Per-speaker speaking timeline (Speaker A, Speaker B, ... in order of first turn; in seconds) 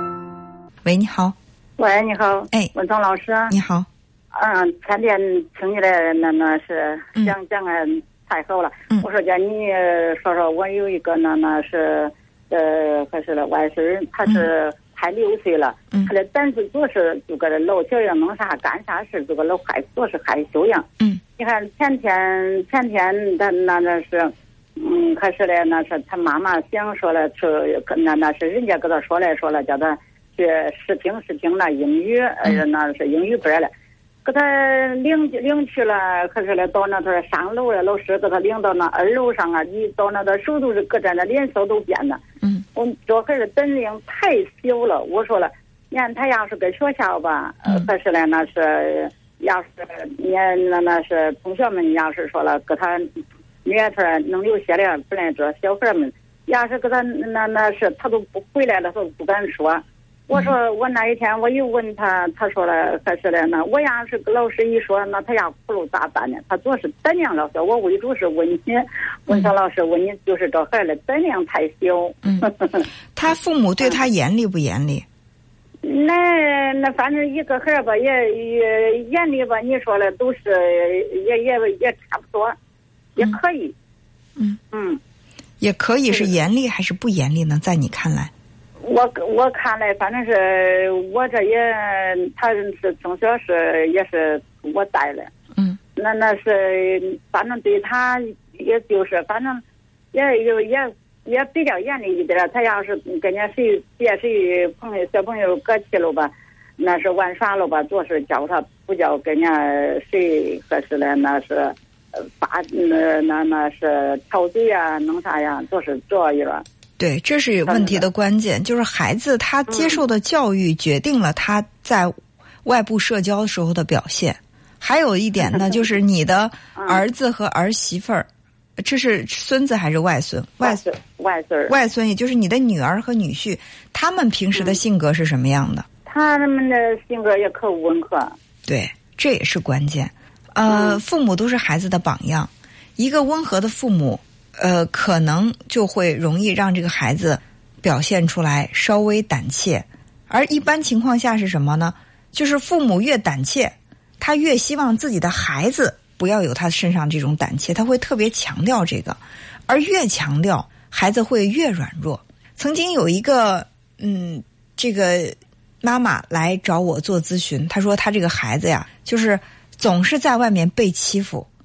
Speaker A: 0.8-1.3, 3.5-3.9, 73.1-75.0, 85.6-88.3, 117.0-122.1, 122.6-128.3, 128.8-130.8, 131.7-135.8, 138.7-171.5
Speaker B: 1.8-3.5, 4.3-33.7, 34.2-42.2, 42.7-53.1, 53.6-72.9, 75.8-82.5, 83.2-83.7, 84.7-85.0, 86.1-86.3, 88.8-95.3, 96.0-99.6, 100.1-116.6, 117.7-118.1, 119.7-120.0, 126.8-127.1, 130.6-131.8, 134.5-134.8, 136.1-138.3, 140.7-141.0